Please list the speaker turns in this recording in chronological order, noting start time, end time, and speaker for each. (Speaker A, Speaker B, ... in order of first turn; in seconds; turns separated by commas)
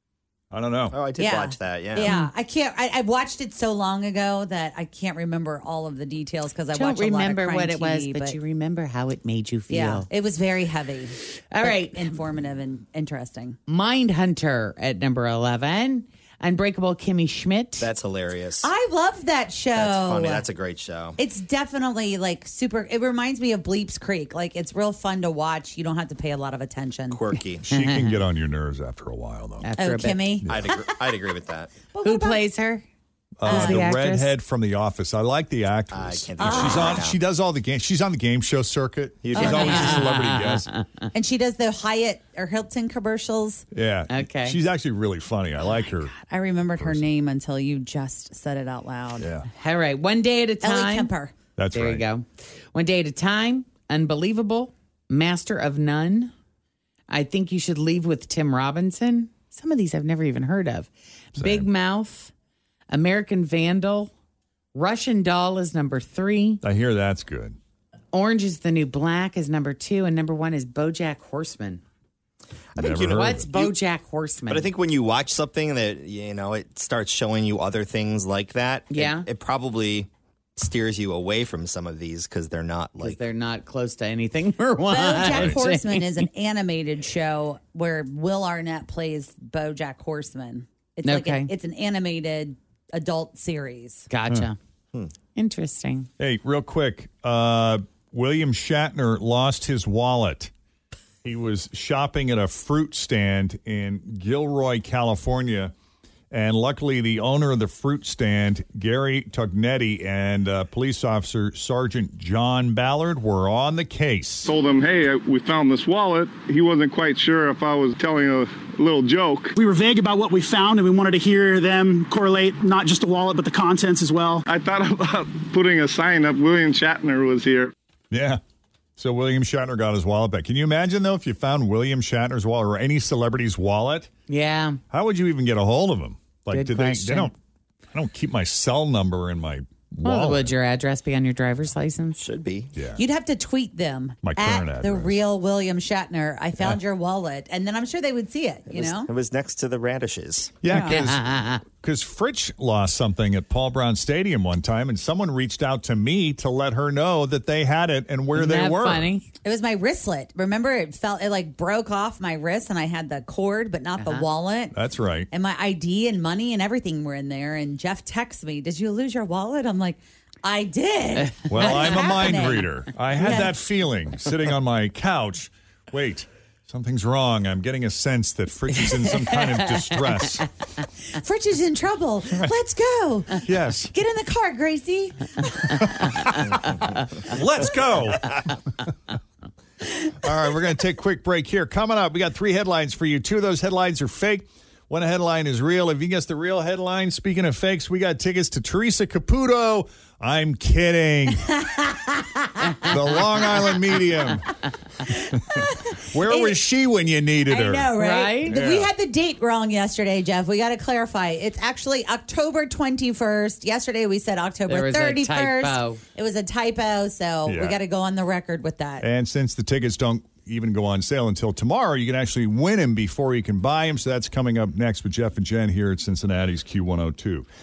Speaker A: 0.5-1.0, Speaker B: 0.9-2.1, Speaker C: 1.2-8.4, Speaker D: 2.0-2.3, Speaker D: 6.8-10.1, Speaker C: 9.7-13.6, Speaker D: 11.5-12.1, Speaker D: 13.7-17.9, Speaker B: 17.8-18.7, Speaker C: 18.6-20.4, Speaker B: 19.7-21.2, Speaker C: 21.2-27.2, Speaker B: 27.1-27.6, Speaker A: 27.7-29.7, Speaker D: 27.7-28.1, Speaker D: 29.6-30.3, Speaker C: 29.8-30.9, Speaker B: 30.5-31.7, Speaker C: 31.9-32.4, Speaker D: 32.0-32.8, Speaker A: 33.4-40.7, Speaker D: 33.4-34.3, Speaker C: 33.5-33.9, Speaker B: 35.9-37.2, Speaker C: 36.4-37.0, Speaker B: 39.2-40.1, Speaker C: 39.4-40.0, Speaker D: 39.4-40.8, Speaker C: 41.1-43.6, Speaker A: 43.7-46.1, Speaker D: 44.1-44.6, Speaker C: 45.6-49.3, Speaker A: 46.8-47.0, Speaker A: 49.2-49.5, Speaker D: 49.5-51.1, Speaker C: 50.6-51.4, Speaker A: 51.6-52.0, Speaker D: 51.7-56.3, Speaker D: 57.1-62.3, Speaker A: 61.4-61.7, Speaker D: 62.9-64.1, Speaker D: 64.8-66.6, Speaker A: 66.6-67.6, Speaker D: 68.1-71.8, Speaker B: 72.8-73.8, Speaker A: 72.8-73.5, Speaker D: 73.1-74.7, Speaker B: 74.5-83.2, Speaker D: 78.9-79.3, Speaker D: 83.0-86.3, Speaker C: 84.9-94.1, Speaker A: 85.3-85.6, Speaker D: 91.0-91.5, Speaker D: 94.1-94.6, Speaker D: 95.3-96.1, Speaker A: 96.2-100.5, Speaker A: 101.2-105.7, Speaker A: 106.3-114.5, Speaker E: 114.5-119.5, Speaker F: 119.5-124.5, Speaker E: 124.5-127.7, Speaker A: 128.1-128.4, Speaker A: 129.0-134.1, Speaker D: 134.3-134.8, Speaker A: 134.9-137.3, Speaker D: 136.5-137.3, Speaker A: 137.9-140.5, Speaker D: 140.1-142.2, Speaker B: 142.2-142.7, Speaker A: 142.8-143.0, Speaker C: 143.0-149.1, Speaker A: 144.2-145.2, Speaker B: 148.7-150.6, Speaker A: 150.6-159.1, Speaker C: 150.7-150.9, Speaker D: 150.7-151.6, Speaker D: 158.3-159.3, Speaker C: 159.4-164.8, Speaker D: 164.0-164.3, Speaker A: 164.7-165.3, Speaker C: 165.3-172.7, Speaker A: 171.5-180.5, Speaker C: 173.2-173.5, Speaker C: 181.1-186.7, Speaker A: 183.4-183.9, Speaker A: 187.2-188.6, Speaker A: 190.2-201.6, Speaker C: 201.7-202.6, Speaker A: 202.8-204.6, Speaker C: 205.1-206.6, Speaker A: 205.6-207.9, Speaker C: 207.5-219.1, Speaker D: 207.9-208.6, Speaker A: 208.5-208.9, Speaker D: 214.7-216.0, Speaker A: 217.5-217.8, Speaker A: 219.0-227.5